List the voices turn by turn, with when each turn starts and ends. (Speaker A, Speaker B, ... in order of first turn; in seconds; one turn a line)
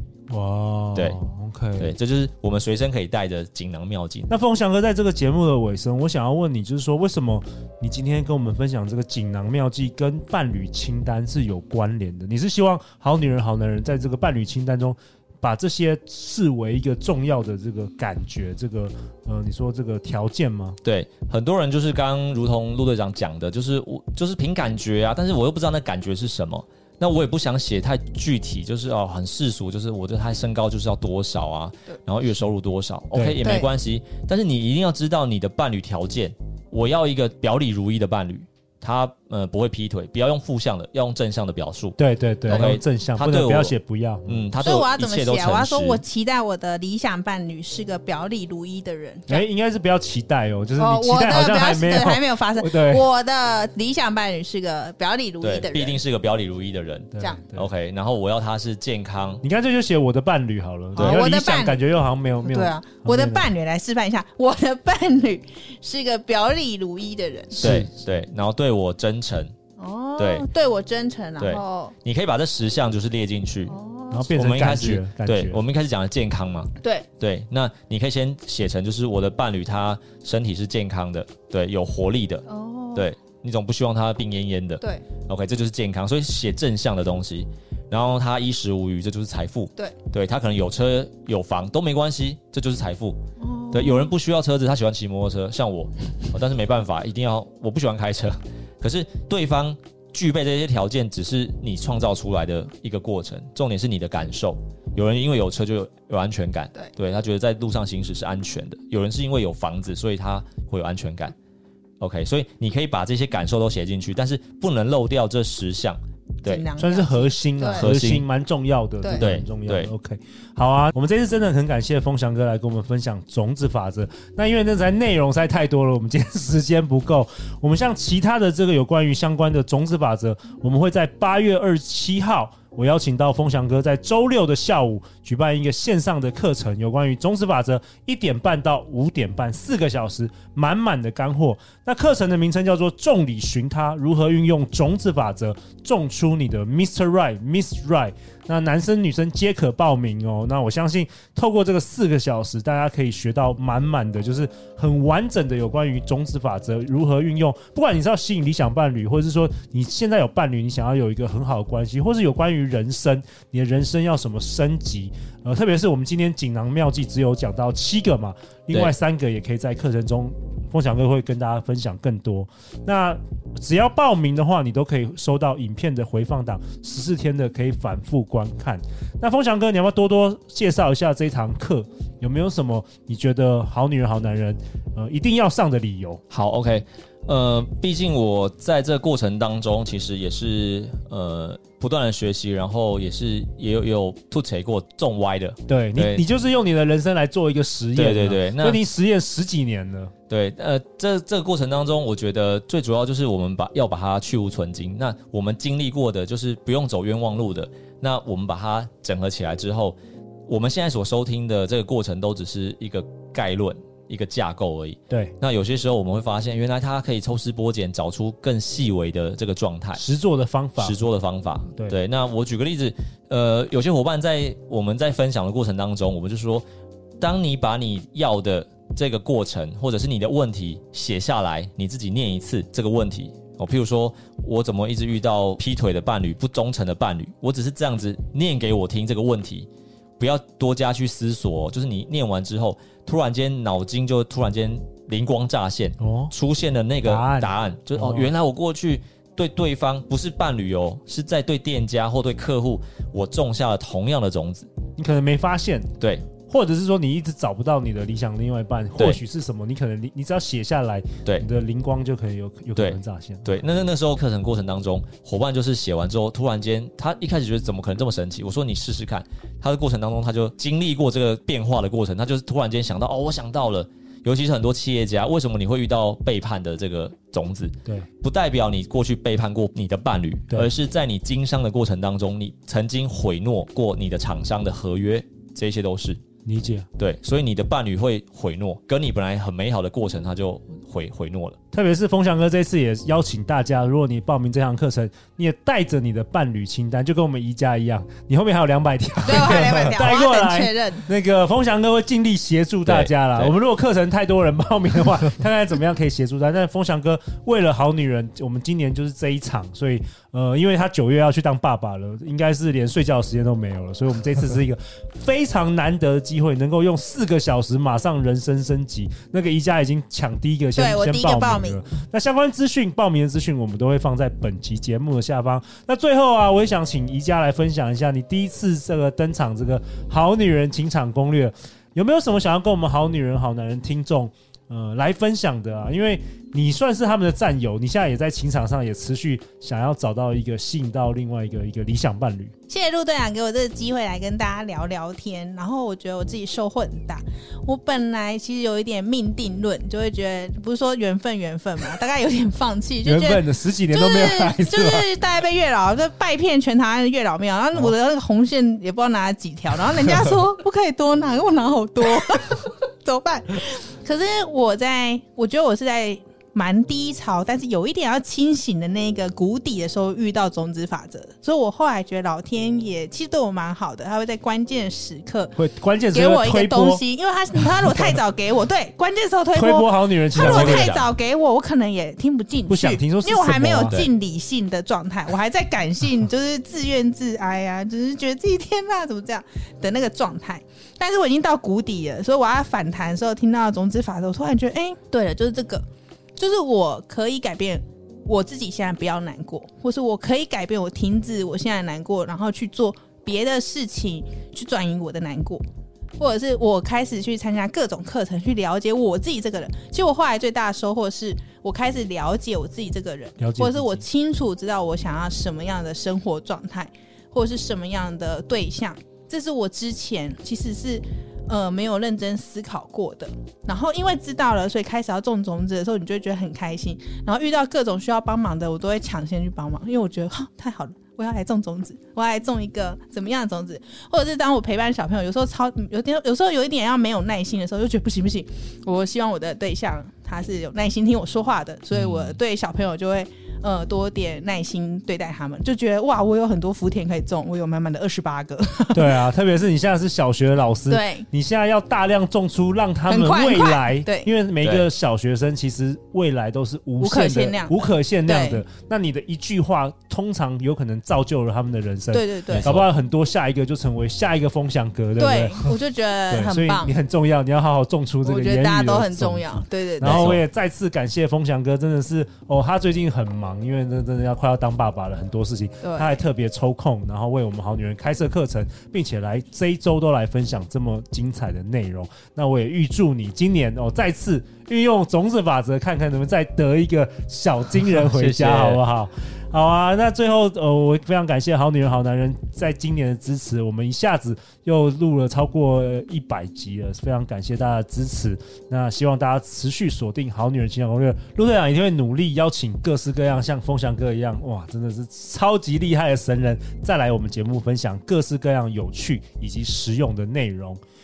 Speaker A: 0.3-1.9
Speaker B: 1.8-4.3
Speaker A: 4.3-20.8
Speaker B: 20.8-42.0
Speaker A: 33.1-33.4
Speaker C: 33.4-33.7
Speaker A: 42.0-44.5
Speaker B: 42.5-43.7
Speaker B: 44.2-46.0
Speaker C: 44.6-49.4
Speaker A: 49.3-53.1
Speaker C: 50.8-56.0
Speaker B: 55.4-59.4
Speaker A: 57.1-57.6
Speaker A: 59.4-63.5
Speaker B: 60.9-61.2
Speaker C: 61.0-61.8
Speaker C: 62.4-67.7
Speaker A: 67.5-67.9
Speaker B: 67.6-69.5
Speaker C: 69.8-71.9
Speaker B: 70.2-70.5
Speaker B: 71.4-73.7
Speaker C: 73.7-74.3
Speaker A: 74.1-75.6
Speaker B: 74.3-93.2
Speaker C: 76.8-77.1
Speaker C: 82.5-83.1
Speaker C: 93.4-94.1
Speaker B: 93.7-111.3
Speaker B: 112.0-116.7
Speaker C: 116.4-117.9
Speaker A: 116.8-186.2
Speaker B: 117.7-118.3
Speaker C: 119.0-119.3
Speaker B: 119.2-119.9
Speaker B: 186.3-196.2
Speaker A: 195.7-200.1
Speaker B: 197.9-198.8
Speaker B: 200.3-210.0
Speaker B: 210.5-220.0
Speaker A: 219.9-221.0
Speaker B: 220.8-226.6
Speaker B: 227.2-239.7
Speaker B: 240.2-254.7
Speaker A: 246.0-246.3
Speaker A: 247.0-248.3
Speaker A: 255.0-263.6
Speaker B: 256.0-256.3
Speaker B: 258.9-259.2
Speaker B: 262.8-286.2
Speaker A: 286.4-286.9
Speaker B: 287.0-291.6
Speaker A: 291.7-342.5
Speaker C: 299.2-301.1
Speaker B: 302.9-303.5
Speaker C: 320.8-321.8
Speaker C: 342.7-375.5
Speaker A: 353.0-355.1
Speaker A: 375.6-377.0
Speaker C: 376.1-395.8
Speaker A: 377.6-378.2
Speaker A: 379.5-380.9
Speaker B: 380.4-381.1
Speaker A: 382.7-384.0
Speaker B: 383.8-384.1
Speaker C: 396.4-405.6
Speaker C: 406.2-449.2
Speaker A: 413.4-414.0
Speaker A: 441.9-442.4
Speaker A: 448.9-465.8
Speaker C: 450.9-451.3
Speaker C: 453.1-454.3
Speaker B: 454.6-454.9
Speaker C: 457.0-458.6
Speaker C: 462.1-462.7
Speaker B: 462.5-462.9
Speaker C: 465.2-466.9
Speaker A: 466.3-510.8
Speaker C: 468.2-470.4
Speaker B: 470.0-470.4
Speaker C: 475.8-476.2
Speaker B: 487.9-488.8